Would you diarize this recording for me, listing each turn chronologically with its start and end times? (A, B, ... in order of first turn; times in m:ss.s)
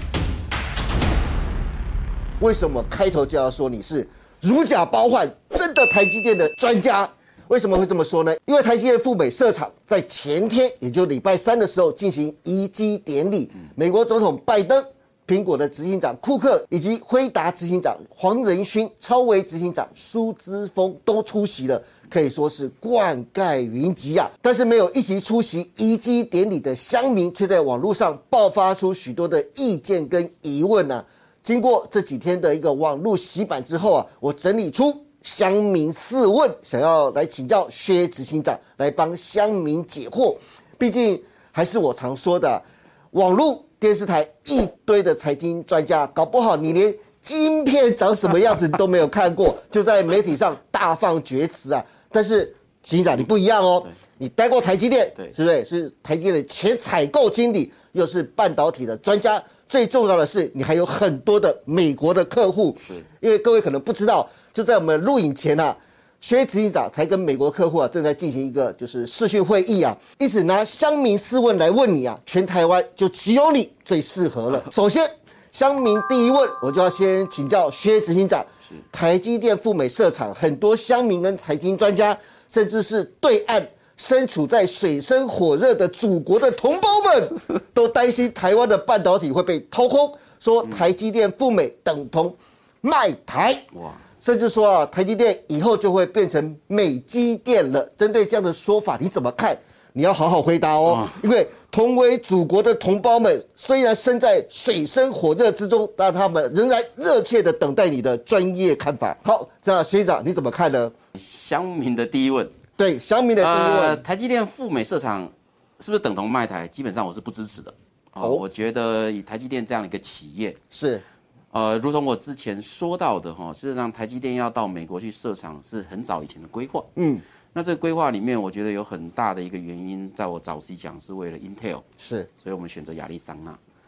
0:02.4-1:33.7 A
1:33.7-1:34.0 B
1:34.2-1:50.9 A
1:40.8-1:41.2 B
1:51.1-1:52.5 B
1:52.8-1:54.0 A
1:53.4-2:00.6 B
1:58.2-1:58.4 A
2:00.7-2:01.0 A
2:01.5-2:06.9 B
2:07.0-2:07.2 A
2:07.5-2:11.8 B
2:12.0-2:12.3 A
2:12.4-2:13.6 B